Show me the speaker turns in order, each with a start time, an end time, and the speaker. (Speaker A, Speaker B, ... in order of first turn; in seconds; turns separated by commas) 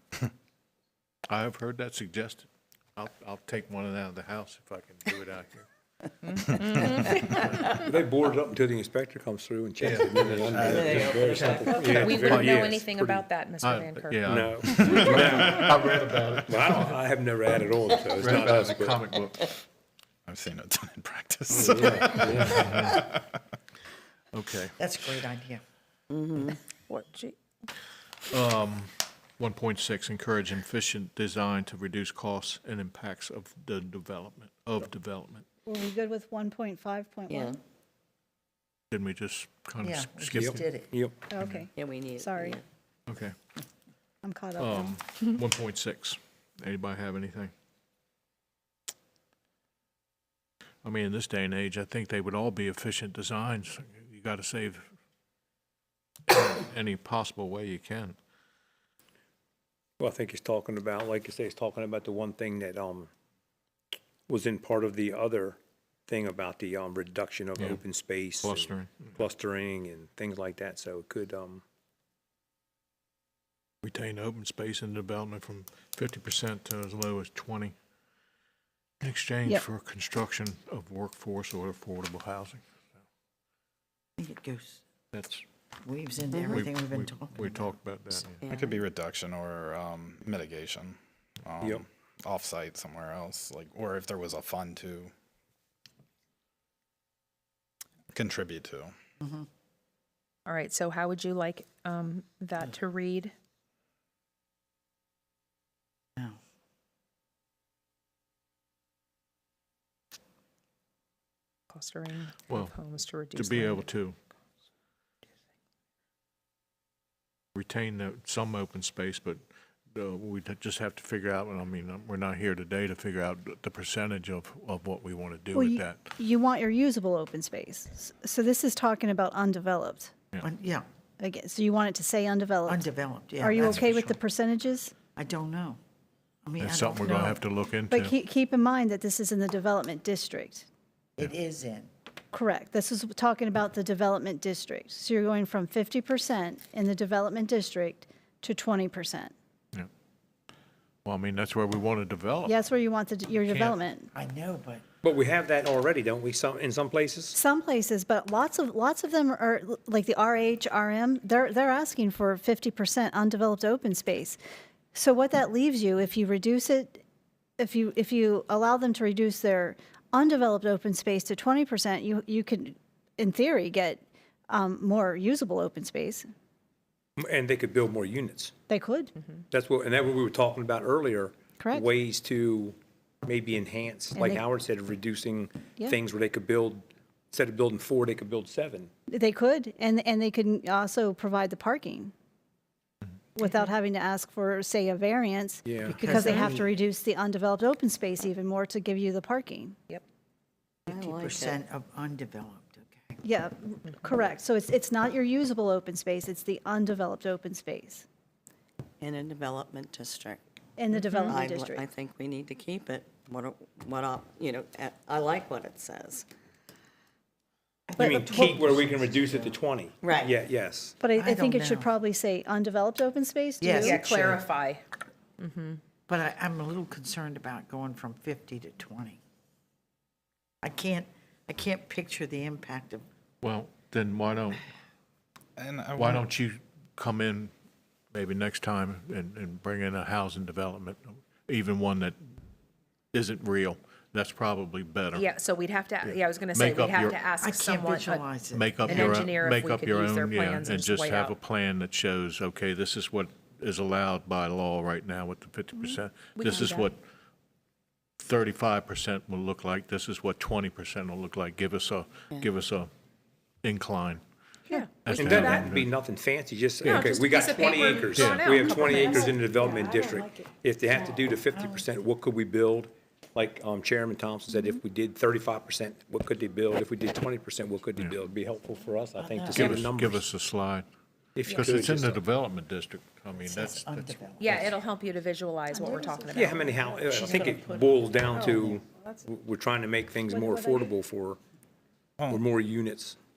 Speaker A: 1.3-5.7, Speaker B: 6.2-7.8, Speaker A: 6.5-7.4, Speaker C: 7.7-13.3, Speaker A: 9.8-11.3, Speaker D: 10.7-11.7, Speaker B: 11.6-14.2, Speaker A: 12.0-12.7, Speaker A: 13.6-17.0, Speaker C: 14.2-19.0, Speaker B: 14.8-15.3, Speaker A: 18.2-19.6, Speaker E: 20.3-23.1, Speaker C: 21.5-22.8, Speaker A: 21.5-23.0, Speaker A: 24.3-24.7, Speaker F: 24.8-25.6, Speaker D: 26.1-26.5, Speaker B: 26.4-27.4, Speaker A: 28.3-35.4, Speaker G: 35.6-37.6, Speaker D: 37.3-37.6, Speaker A: 38.9-40.6, Speaker F: 39.8-40.9, Speaker C: 40.3-41.1, Speaker G: 41.3-42.6, Speaker A: 41.4-41.6, Speaker D: 41.8-42.6, Speaker A: 43.1-43.4, Speaker G: 44.2-44.9, Speaker A: 44.6-47.5, Speaker A: 50.8-54.9, Speaker A: 56.3-58.2, Speaker C: 60.0-63.1, Speaker C: 64.3-71.6, Speaker A: 68.4-69.1, Speaker A: 73.8-77.7, Speaker A: 79.0-82.6, Speaker F: 84.2-84.8, Speaker A: 85.1-85.4, Speaker F: 85.8-87.7, Speaker D: 86.3-86.6, Speaker A: 86.5-88.4, Speaker D: 88.4-88.8, Speaker E: 88.5-95.1, Speaker E: 98.1-98.9, Speaker F: 99.2-99.5, Speaker B: 100.5-103.3, Speaker B: 111.7-113.9, Speaker A: 112.5-114.2, Speaker A: 117.5-126.0, Speaker G: 125.5-130.1, Speaker F: 130.4-130.8, Speaker G: 131.2-132.9, Speaker F: 132.7-134.1, Speaker G: 133.4-134.9, Speaker A: 133.6-134.1, Speaker F: 135.2-135.8, Speaker F: 136.4-137.4, Speaker A: 136.6-138.1, Speaker G: 137.9-140.7, Speaker F: 141.2-141.9, Speaker G: 142.3-149.3, Speaker A: 151.0-152.6, Speaker G: 152.4-154.1, Speaker A: 153.5-153.8, Speaker F: 154.1-154.8, Speaker C: 155.0-157.4, Speaker G: 157.3-164.4, Speaker G: 164.9-167.0, Speaker G: 167.6-176.3, Speaker C: 177.2-178.5, Speaker G: 178.7-179.1, Speaker C: 179.5-188.9, Speaker G: 181.6-181.9, Speaker G: 184.1-184.4, Speaker G: 189.1-192.1, Speaker G: 193.3-199.8, Speaker C: 195.6-196.1, Speaker F: 196.1-196.6, Speaker F: 200.9-203.2, Speaker D: 200.9-201.6, Speaker G: 203.2-208.1, Speaker D: 209.0-210.4, Speaker G: 210.8-211.9, Speaker D: 211.3-216.2, Speaker F: 217.9-219.1, Speaker G: 218.0-218.6, Speaker C: 218.0-220.9, Speaker D: 220.0-220.3, Speaker G: 221.0-224.4, Speaker F: 221.1-221.9, Speaker F: 223.6-224.4, Speaker B: 223.8-224.8, Speaker B: 225.4-225.8, Speaker F: 226.1-229.2, Speaker F: 230.6-233.1, Speaker A: 233.4-234.6, Speaker E: 235.6-236.2, Speaker A: 235.9-237.5, Speaker A: 238.1-242.2, Speaker A: 243.1-245.3, Speaker B: 245.1-248.2, Speaker A: 246.0-247.2, Speaker F: 247.4-249.3, Speaker A: 248.5-257.0, Speaker B: 248.8-251.3, Speaker B: 256.3-256.9, Speaker A: 258.2-262.9, Speaker A: 263.6-264.2, Speaker B: 264.7-265.7, Speaker A: 265.0-265.9, Speaker C: 265.1-280.3, Speaker A: 266.8-267.1, Speaker B: 266.8-269.4, Speaker A: 268.1-268.4, Speaker F: 268.6-271.9, Speaker F: 279.2-279.9, Speaker A: 279.5-280.9, Speaker C: 281.4-282.2, Speaker A: 281.4-284.7, Speaker F: 283.4-284.8, Speaker B: 284.4-287.6, Speaker G: 285.7-288.7, Speaker C: 286.3-291.4, Speaker B: 288.5-289.2, Speaker F: 288.5-288.8, Speaker G: 290.3-290.9, Speaker C: 292.3-293.2